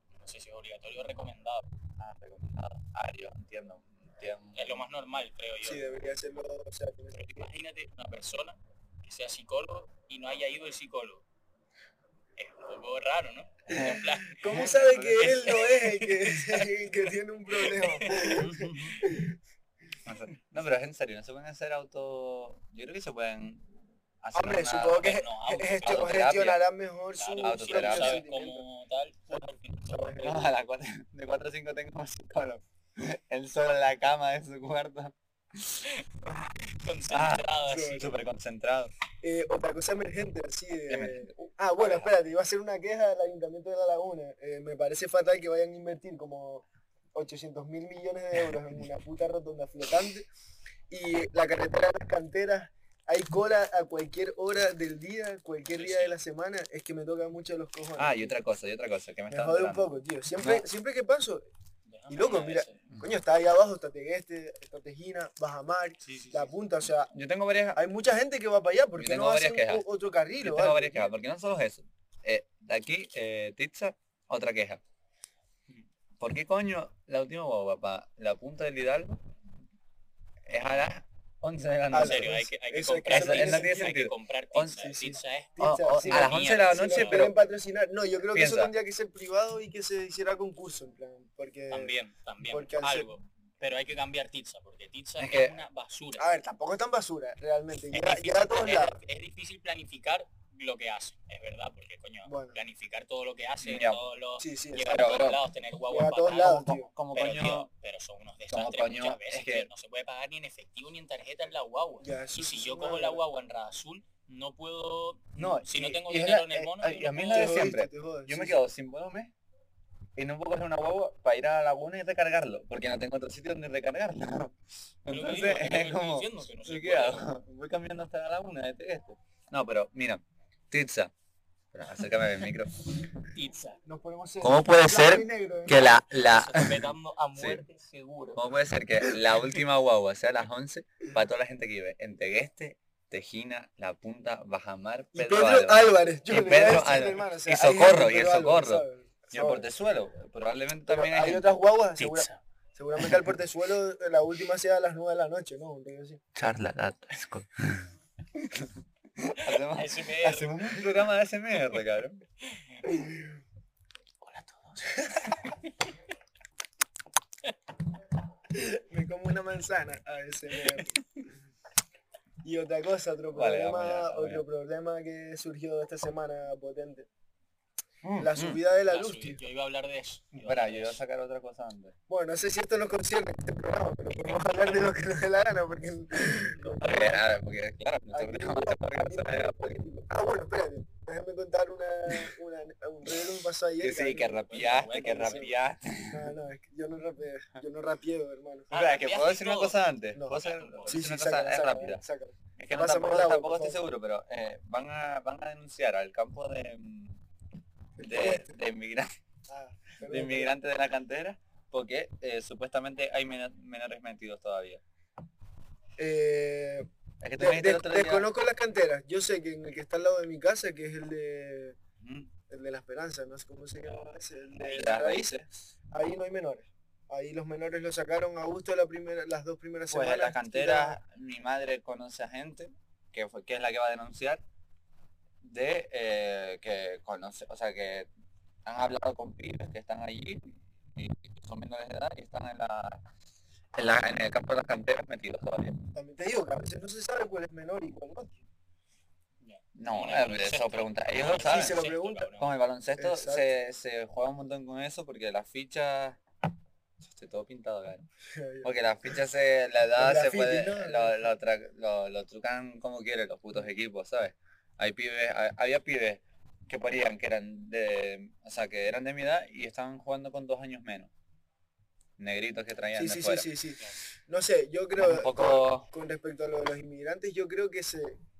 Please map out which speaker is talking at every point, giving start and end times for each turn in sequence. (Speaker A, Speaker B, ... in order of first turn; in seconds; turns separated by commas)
Speaker A: 0.2-1.7, Speaker B: 2.0-4.8, Speaker A: 4.5-5.9, Speaker C: 5.6-7.5, Speaker A: 7.1-11.2, Speaker A: 12.4-16.8, Speaker B: 13.7-15.6, Speaker C: 13.7-19.4, Speaker A: 17.5-19.0, Speaker B: 18.4-19.0, Speaker B: 20.1-23.7, Speaker B: 24.2-25.1, Speaker C: 24.3-28.6, Speaker A: 24.8-26.5, Speaker B: 25.8-26.6, Speaker A: 27.2-30.3, Speaker B: 27.4-28.2, Speaker C: 29.3-30.5, Speaker B: 30.2-35.8, Speaker A: 35.8-38.1, Speaker B: 37.1-38.9, Speaker C: 37.6-38.1, Speaker C: 39.2-50.3, Speaker B: 40.9-42.1, Speaker C: 50.9-58.4, Speaker A: 55.7-56.1, Speaker B: 58.0-60.6, Speaker C: 59.3-61.5, Speaker A: 61.9-62.8, Speaker C: 62.1-67.1, Speaker A: 66.0-66.5, Speaker B: 67.1-67.8, Speaker C: 67.7-71.1, Speaker B: 69.0-69.8, Speaker B: 70.4-74.8, Speaker B: 76.2-79.2, Speaker B: 80.5-82.3, Speaker C: 81.9-83.9, Speaker A: 81.9-87.3, Speaker B: 83.1-84.9, Speaker C: 84.8-93.1, Speaker B: 85.6-87.3, Speaker B: 88.3-88.7, Speaker A: 91.7-96.3, Speaker B: 95.2-95.6, Speaker C: 96.2-99.0, Speaker A: 97.9-117.7, Speaker C: 102.2-102.6, Speaker B: 103.6-104.0, Speaker C: 104.4-105.2, Speaker B: 104.9-105.4, Speaker C: 105.9-106.9, Speaker B: 106.3-107.7, Speaker B: 108.5-109.7, Speaker C: 112.0-113.2, Speaker B: 115.4-119.3, Speaker C: 117.3-118.6, Speaker B: 120.2-131.1, Speaker A: 125.1-127.3, Speaker B: 131.7-132.8, Speaker A: 133.3-133.8, Speaker C: 133.8-135.8, Speaker B: 134.4-137.6, Speaker A: 136.2-138.4, Speaker B: 138.3-151.6, Speaker C: 145.1-149.7, Speaker C: 150.9-156.2, Speaker A: 152.0-152.4, Speaker B: 156.3-162.2, Speaker A: 159.4-160.9, Speaker A: 162.4-162.8, Speaker C: 162.8-163.3, Speaker A: 164.2-165.9, Speaker C: 168.5-171.0, Speaker A: 170.5-170.9, Speaker C: 172.4-177.1, Speaker B: 173.3-174.4, Speaker B: 178.0-178.6, Speaker C: 178.2-179.4, Speaker A: 178.8-181.0, Speaker B: 180.3-181.9, Speaker C: 182.1-187.2, Speaker B: 186.8-189.8, Speaker C: 188.1-194.4, Speaker B: 193.8-196.3, Speaker A: 194.5-195.5, Speaker C: 195.1-195.4, Speaker C: 196.1-198.7, Speaker A: 198.7-201.0, Speaker B: 198.7-202.0, Speaker C: 200.1-203.8, Speaker B: 202.6-207.2, Speaker C: 208.0-208.5, Speaker B: 208.0-209.1, Speaker C: 209.5-210.5, Speaker B: 210.1-214.8, Speaker C: 216.0-216.9, Speaker B: 217.2-218.3, Speaker C: 217.4-221.8, Speaker B: 222.0-222.3, Speaker C: 222.5-231.0, Speaker B: 224.7-225.4, Speaker B: 229.9-234.4, Speaker B: 235.4-238.1, Speaker B: 238.6-243.0, Speaker B: 243.7-245.8, Speaker C: 245.9-248.3, Speaker A: 249.4-252.5, Speaker B: 249.8-251.8, Speaker C: 251.4-252.3, Speaker B: 252.3-256.2, Speaker C: 253.0-253.4, Speaker B: 257.0-258.0, Speaker C: 258.3-259.1, Speaker B: 258.6-271.1, Speaker C: 260.0-261.3, Speaker B: 272.2-273.5, Speaker C: 272.9-278.2, Speaker B: 275.0-275.9